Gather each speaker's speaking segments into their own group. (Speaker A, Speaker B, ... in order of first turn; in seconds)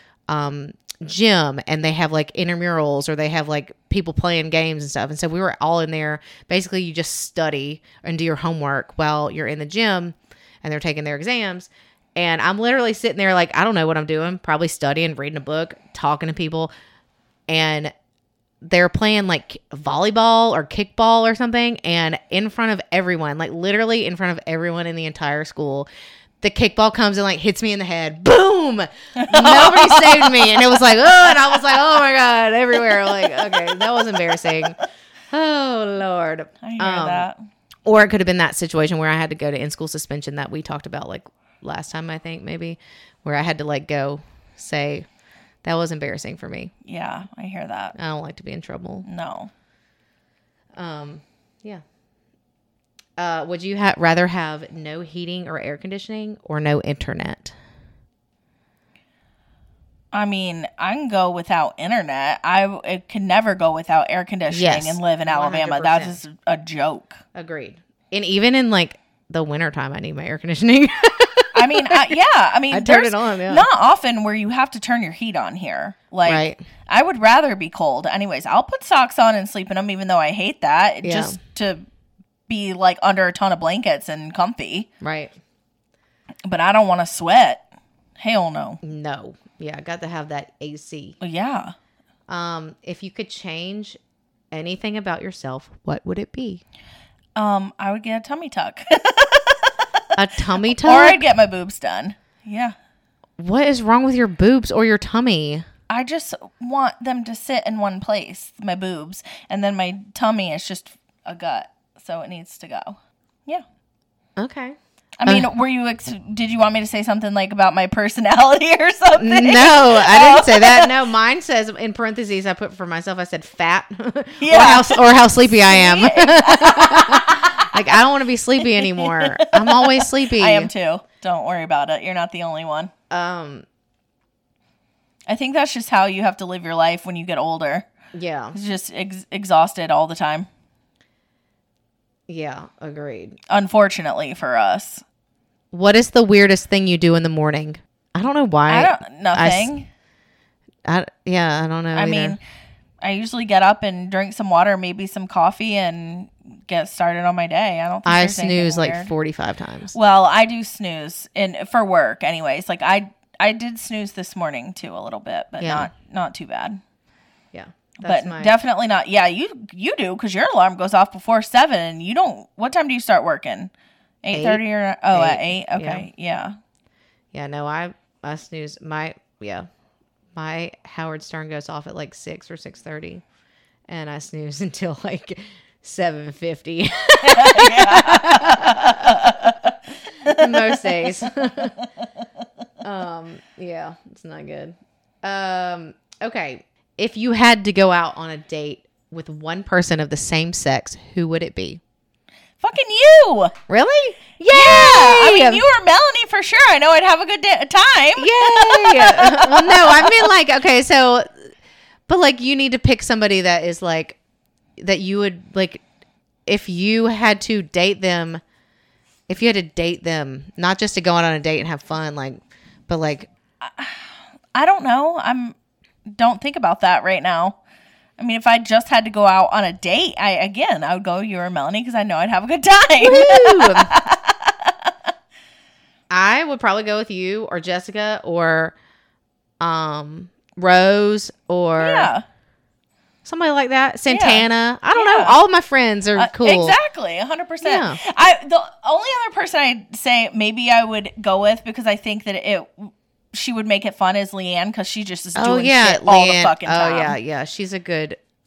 Speaker A: 0.3-16.7, 17.5-17.9, 18.6-25.9, 26.4-34.8, 35.3-37.2, 37.9-45.0, 45.6-46.7, 48.0-49.1, 50.7-51.8, 53.2-57.5, 64.5-66.2, 67.3-72.1, 72.7-73.7, 76.2-76.6, 81.0-81.4, 85.0-85.3, 88.8-91.2, 92.3-94.0, 94.5-96.6, 100.1-101.2, 103.4-105.7, 114.4-115.5, 119.2-130.7, 133.1-133.7, 138.1-138.6, 142.3-143.4, 145.7-149.7, 150.8-152.4, 158.0-159.9, 165.6-165.9, 167.5-168.6, 174.3-176.1, 177.3-179.7, 180.3-183.2, 183.9-189.5, 190.2-191.8, 192.8-201.8, 203.7-205.7, 208.2-211.5, 212.1-214.2, 214.8-215.8, 216.4-218.4, 219.3-223.3, 233.0-233.9, 236.1-238.7, 239.6-242.1, 243.2-246.8, 247.6-248.0, 255.3-258.2
Speaker B: 29.1-31.2, 32.8-34.1, 36.6-37.4, 46.8-47.9, 49.0-49.5, 60.1-67.2, 71.5-81.8, 82.5-84.9, 86.5-87.6, 88.2-88.8, 91.2-91.7, 97.3-99.8, 100.6-102.8, 105.9-113.6, 115.2-120.9, 124.4-127.8, 128.6-132.9, 135.3-137.9, 138.5-140.5, 143.5-145.0, 148.7-149.9, 151.9-152.4, 153.0-159.1, 159.9-166.8, 168.0-173.7, 174.2-176.6, 187.2-192.2, 202.6-203.5, 204.5-210.3, 223.6-225.5, 226.1-227.6, 228.2-234.9, 241.8-242.2, 244.1-245.3, 246.2-257.2